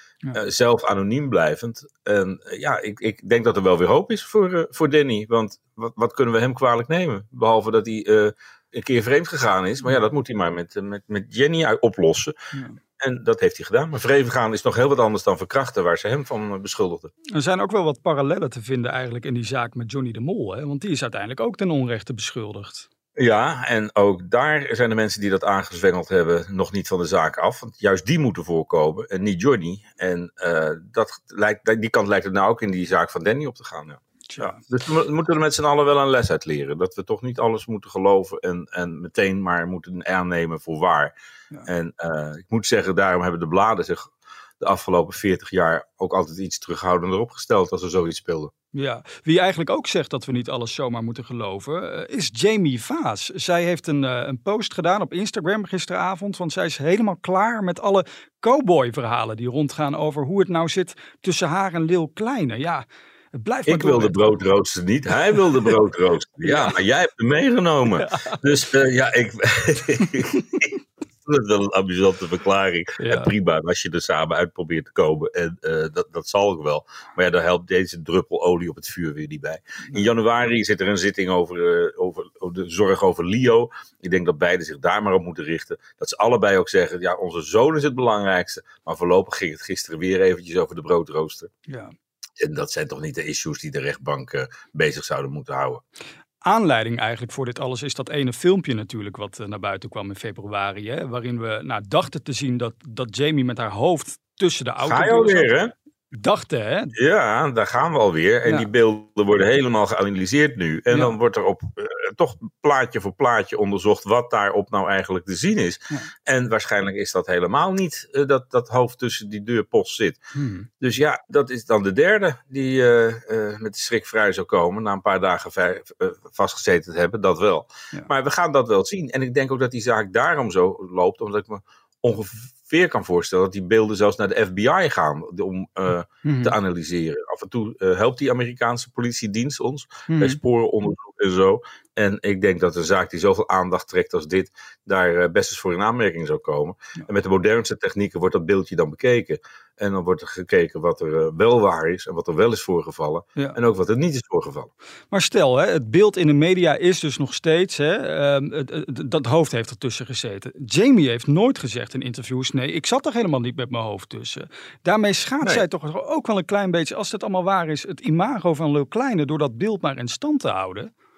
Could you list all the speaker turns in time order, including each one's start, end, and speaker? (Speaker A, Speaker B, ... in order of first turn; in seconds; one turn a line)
Speaker A: 0.3-12.3
Speaker B: 12.5-12.8
Speaker A: 13.0-17.1
Speaker B: 17.3-22.9
Speaker A: 23.2-41.1
Speaker B: 34.3-34.6
Speaker A: 41.7-48.5
Speaker B: 48.7-64.4
Speaker A: 63.7-70.7
Speaker B: 65.3-65.7
Speaker B: 66.4-66.8
Speaker B: 67.9-68.4
Speaker A: 71.2-91.5
Speaker B: 73.0-73.3
Speaker B: 91.7-91.9
Speaker A: 92.4-95.8
Speaker B: 96.4-105.5
Speaker A: 104.8-105.7
Speaker B: 106.1-106.9
Speaker A: 107.0-120.2
Speaker B: 110.9-111.2
Speaker B: 120.3-120.7
Speaker A: 120.8-154.7
Speaker B: 136.2-136.6
Speaker B: 140.1-140.4
Speaker B: 155.1-170.9